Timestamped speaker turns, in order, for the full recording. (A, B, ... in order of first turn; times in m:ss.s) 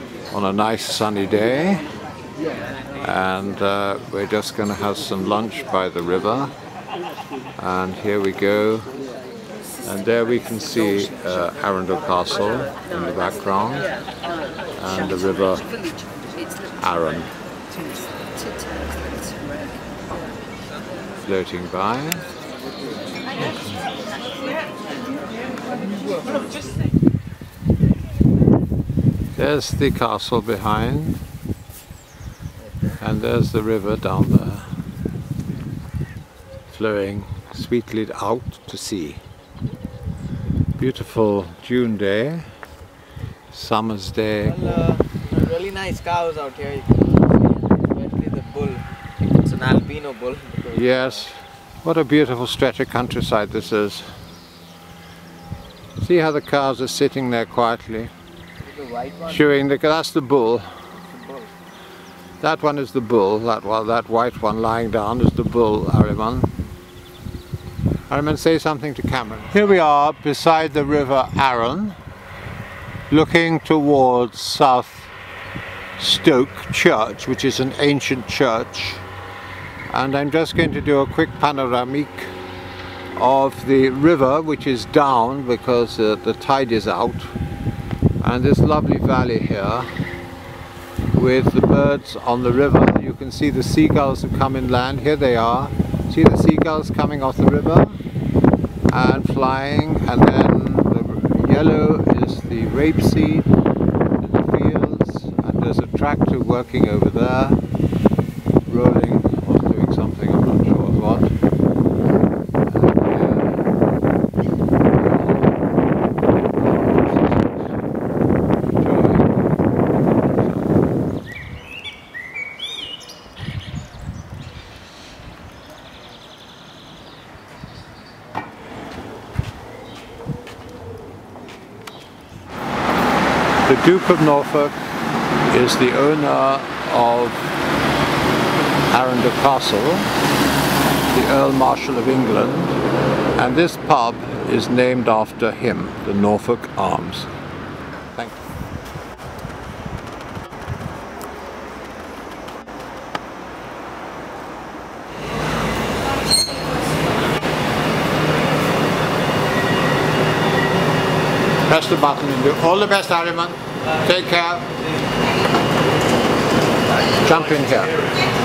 0:00.3-0:01.8 A
0:03.0-0:06.5 A
0:07.6-0:08.9 A
0:09.8-0:13.9 A
0:14.8-0:15.7 A
0:16.8-0:17.3 A
0:21.2-0:22.3 A
0:29.4-0:31.2 A
0:33.0-0:34.7 A
0:36.7-0:39.2 A
0:40.8-0:42.5 A
0:43.5-0:44.8 A
0:44.4-0:51.1 B
0:50.7-0:54.1 A
0:56.0-0:58.1 A
0:58.8-0:59.4 B
0:59.3-1:00.7 A
1:01.0-1:01.5 B
1:02.4-1:06.5 A
1:08.1-1:12.0 A
1:13.1-1:15.1 A
1:16.0-1:19.0 A
1:19.9-1:22.3 A
1:23.1-1:27.3 A
1:28.2-1:29.9 A
1:31.1-1:38.0 A
1:38.9-1:43.5 A
1:44.2-1:47.6 A
1:48.7-1:51.3 A
1:52.7-1:53.7 A
1:55.0-1:55.3 A
1:56.6-1:57.4 A
1:58.8-1:59.5 A
2:00.4-2:00.6 A
2:13.6-2:14.8 A
2:15.5-2:17.5 A
2:18.9-2:20.1 A
2:21.1-2:22.8 A
2:23.4-2:27.3 A
2:41.7-2:44.7 A
2:47.2-2:48.1 A